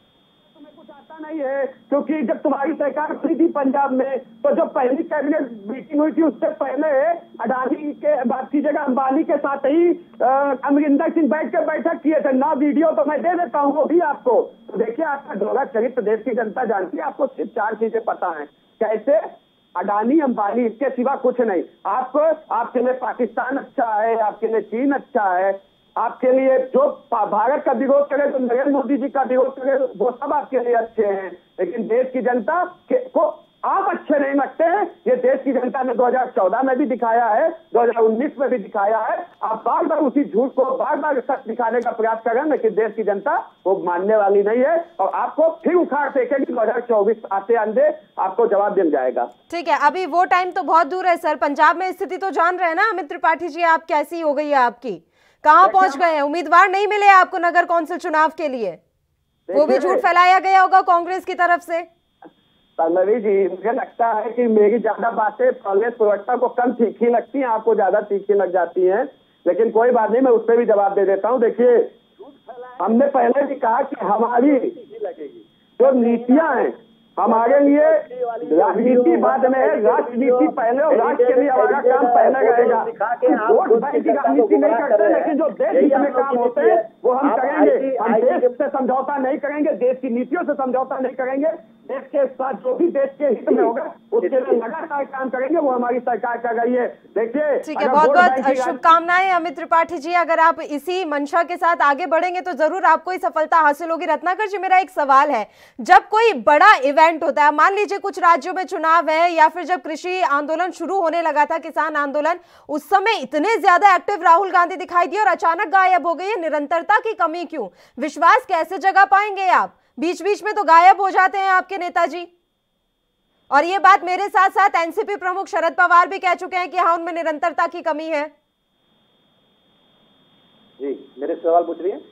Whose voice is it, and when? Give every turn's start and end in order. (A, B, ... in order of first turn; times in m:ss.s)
0:00.5-0:19.2 A
0:19.8-0:49.3 A
0:49.5-0:58.8 B
0:55.6-0:56.0 A
0:59.5-1:00.0 A
0:59.5-1:01.8 B
1:02.8-1:11.9 A
1:11.6-1:13.2 C
1:12.8-1:14.7 A
1:14.2-1:28.6 C
1:15.8-1:38.8 A
1:33.5-1:34.6 C
1:37.6-2:02.3 B
2:03.5-2:08.3 B
2:10.8-2:12.0 C